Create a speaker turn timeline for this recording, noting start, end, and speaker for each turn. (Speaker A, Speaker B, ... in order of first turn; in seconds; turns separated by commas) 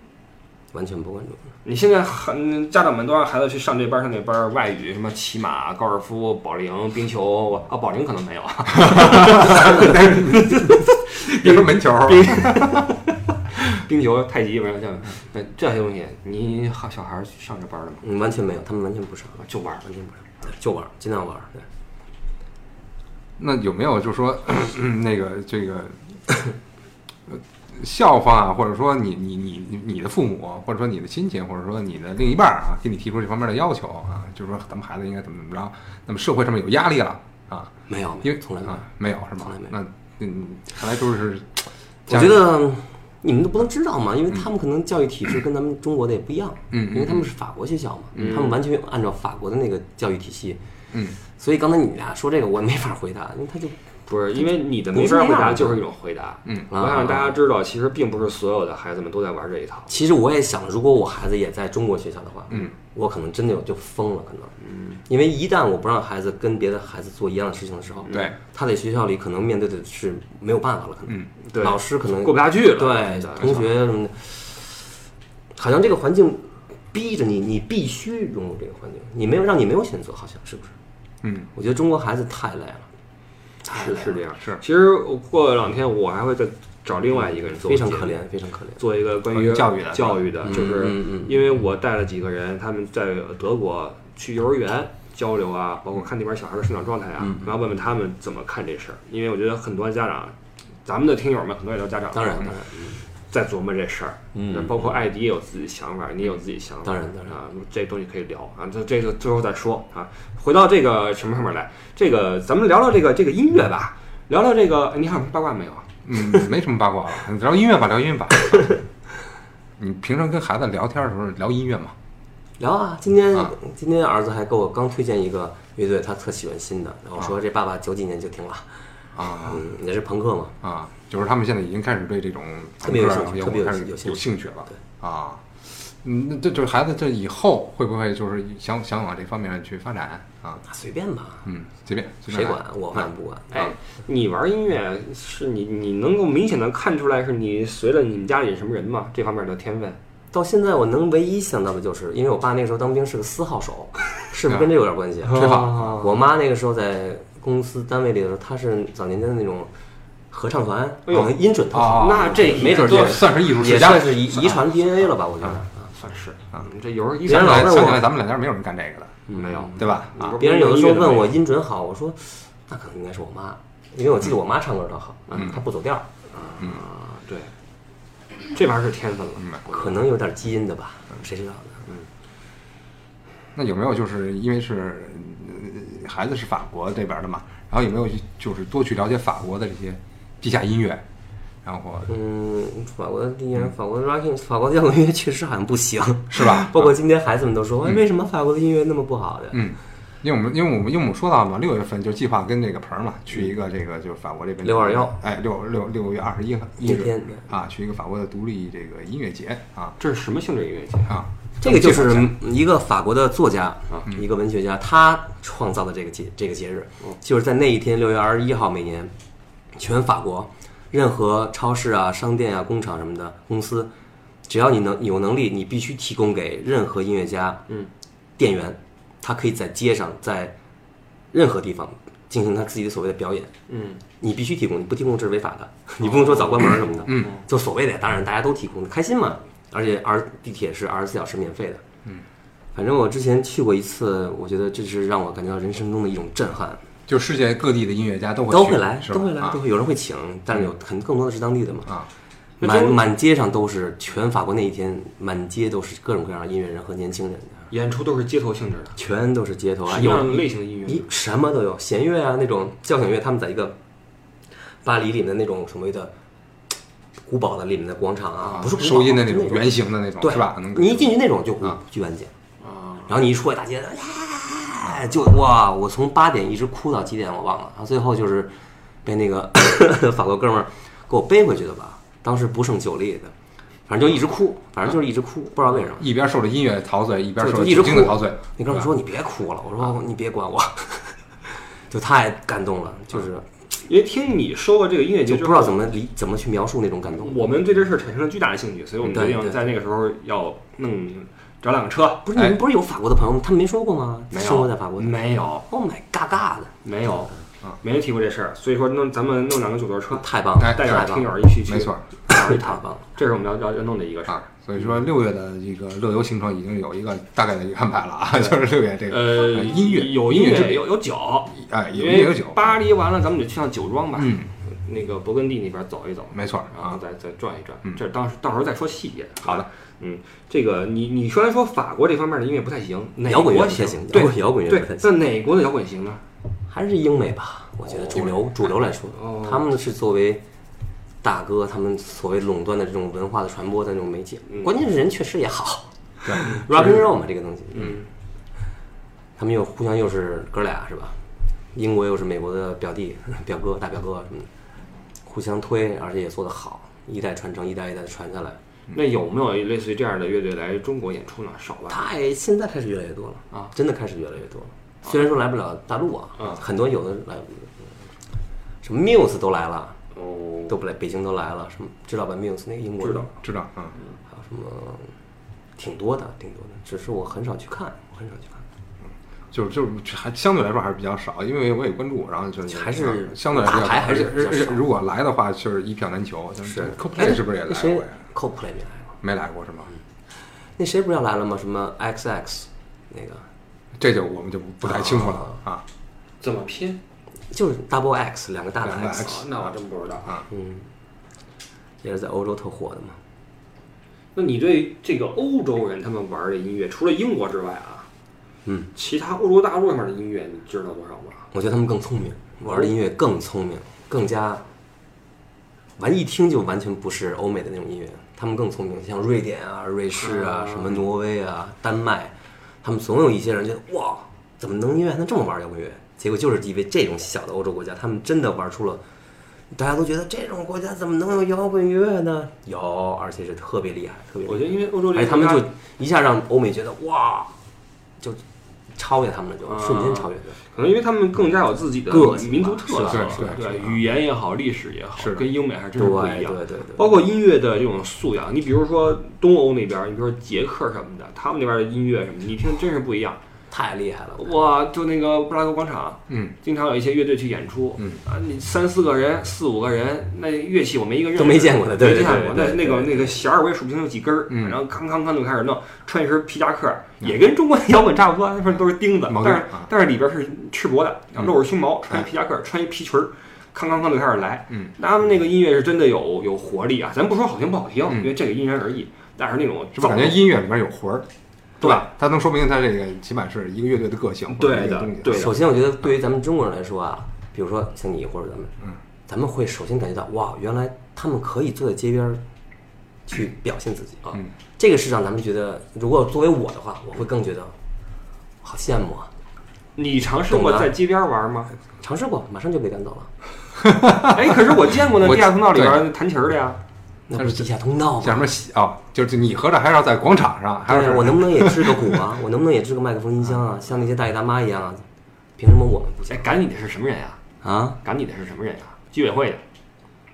Speaker A: 0.7-1.4, Speaker B: 1.6-18.0, Speaker C: 8.8-12.8, Speaker A: 18.0-19.4, Speaker B: 19.4-20.2, Speaker A: 20.4-21.6, Speaker C: 23.4-26.0, Speaker C: 27.3-37.7, Speaker A: 37.9-38.9, Speaker C: 38.2-42.5, Speaker A: 39.4-39.7, Speaker A: 42.1-50.6, Speaker C: 46.7-47.3, Speaker B: 48.1-48.6, Speaker A: 51.4-53.8, Speaker B: 54.1-59.9, Speaker A: 54.3-55.8, Speaker A: 56.7-57.4, Speaker A: 59.9-64.5, Speaker B: 64.6-65.0, Speaker A: 65.0-74.9, Speaker B: 68.0-68.3, Speaker C: 68.1-68.3, Speaker B: 71.4-73.7, Speaker A: 75.5-80.7, Speaker C: 81.2-81.5, Speaker A: 81.5-82.9, Speaker B: 83.7-88.2, Speaker A: 83.7-84.2, Speaker A: 87.6-88.8, Speaker B: 88.8-102.6, Speaker C: 89.3-90.5, Speaker A: 90.4-91.4, Speaker A: 102.1-103.0, Speaker B: 103.3-115.9, Speaker A: 104.3-104.9, Speaker A: 106.8-107.3, Speaker C: 116.0-118.7, Speaker C: 119.8-121.9, Speaker A: 122.6-128.7, Speaker C: 129.1-129.6, Speaker A: 129.3-130.5, Speaker C: 130.6-140.6, Speaker A: 132.8-134.8, Speaker A: 140.6-141.5, Speaker C: 141.4-143.1, Speaker A: 142.3-143.7, Speaker B: 143.5-150.0, Speaker A: 150.3-159.7, Speaker C: 155.2-156.0, Speaker B: 155.3-156.1, Speaker A: 160.3-165.9, Speaker B: 161.1-163.4, Speaker C: 161.7-164.6, Speaker B: 165.9-168.0, Speaker A: 167.2-168.1, Speaker C: 167.2-169.2, Speaker A: 169.3-176.1, Speaker B: 169.3-171.4, Speaker C: 169.8-170.4, Speaker B: 175.3-175.5, Speaker B: 176.3-177.5, Speaker B: 178.3-180.1, Speaker A: 179.7-181.8, Speaker C: 183.5-191.0, Speaker C: 191.6-192.1, Speaker A: 192.1-199.7, Speaker C: 196.3-196.9, Speaker C: 199.5-209.9, Speaker A: 204.6-205.2, Speaker A: 206.8-207.5, Speaker B: 210.0-211.2, Speaker C: 211.1-212.3, Speaker A: 211.6-219.1, Speaker A: 219.7-223.9, Speaker A: 224.5-227.6, Speaker A: 228.4-230.5, Speaker A: 231.3-233.5, Speaker B: 233.7-234.0, Speaker A: 234.2-241.8, Speaker B: 236.0-237.4, Speaker C: 237.1-237.3, Speaker A: 242.7-246.8, Speaker C: 247.1-249.6, Speaker A: 248.5-251.9, Speaker A: 252.6-257.7, Speaker B: 252.6-253.0, Speaker B: 257.7-259.0, Speaker A: 259.0-263.8, Speaker B: 259.9-261.1, Speaker A: 264.8-266.1, Speaker A: 267.2-272.3, Speaker C: 268.5-271.8, Speaker B: 272.6-273.1, Speaker A: 273.1-283.3, Speaker A: 283.9-286.1, Speaker C: 285.9-288.9, Speaker A: 287.4-293.4, Speaker B: 293.9-295.9, Speaker A: 295.3-297.5, Speaker B: 297.2-302.2, Speaker A: 299.0-299.6, Speaker A: 302.2-306.7, Speaker B: 304.3-305.6, Speaker B: 306.8-314.6, Speaker A: 310.1-311.3, Speaker C: 310.6-311.0, Speaker C: 311.6-312.0, Speaker A: 312.3-313.1, Speaker C: 314.3-320.9, Speaker B: 319.1-336.2, Speaker C: 321.5-322.8, Speaker C: 324.1-324.5, Speaker C: 326.3-327.0, Speaker A: 333.2-335.1, Speaker A: 336.7-340.4, Speaker B: 337.9-338.4, Speaker B: 339.1-339.7, Speaker A: 341.2-348.0, Speaker C: 346.2-347.0, Speaker B: 347.7-348.0, Speaker A: 349.4-351.2, Speaker A: 351.7-354.5, Speaker A: 355.2-358.6, Speaker B: 358.9-362.0, Speaker A: 361.9-367.8, Speaker A: 368.8-370.0, Speaker B: 370.1-370.8, Speaker A: 370.7-373.3, Speaker B: 373.0-373.3, Speaker C: 373.4-373.9, Speaker A: 374.3-375.1, Speaker A: 375.8-378.6, Speaker C: 379.5-388.1, Speaker A: 382.7-384.8, Speaker A: 386.6-389.1, Speaker C: 389.2-389.9, Speaker A: 390.8-393.4, Speaker C: 394.0-395.8, Speaker A: 394.9-395.6, Speaker B: 396.4-397.0, Speaker A: 397.5-399.4, Speaker C: 398.8-399.6, Speaker B: 399.1-400.4, Speaker A: 400.5-400.9, Speaker A: 402.0-403.2, Speaker B: 404.3-408.1, Speaker B: 408.9-411.4, Speaker A: 411.5-414.6, Speaker B: 412.7-412.9, Speaker A: 416.0-429.0, Speaker B: 420.2-421.0, Speaker A: 429.7-437.5, Speaker B: 434.4-435.7, Speaker A: 438.9-440.6, Speaker B: 439.6-453.4, Speaker A: 442.1-443.6, Speaker C: 443.1-444.0, Speaker C: 445.1-445.4, Speaker A: 445.9-447.2, Speaker A: 453.7-454.6, Speaker B: 454.4-480.4, Speaker C: 456.3-456.5, Speaker A: 461.4-463.4, Speaker C: 464.5-464.8, Speaker C: 469.3-469.9, Speaker C: 479.9-481.3, Speaker C: 481.8-485.6, Speaker B: 481.8-482.1, Speaker B: 484.5-485.6, Speaker A: 485.3-488.7, Speaker A: 489.3-492.4, Speaker A: 493.3-497.7, Speaker A: 498.6-499.3, Speaker B: 499.9-501.7, Speaker A: 500.5-500.9, Speaker A: 502.0-503.3, Speaker C: 503.8-504.5, Speaker B: 504.2-506.8, Speaker C: 505.1-506.1, Speaker A: 507.3-508.5, Speaker C: 507.4-507.7, Speaker C: 508.2-512.2, Speaker A: 510.9-515.0, Speaker A: 515.6-516.5, Speaker B: 516.3-517.4, Speaker A: 517.6-518.0, Speaker B: 518.0-519.6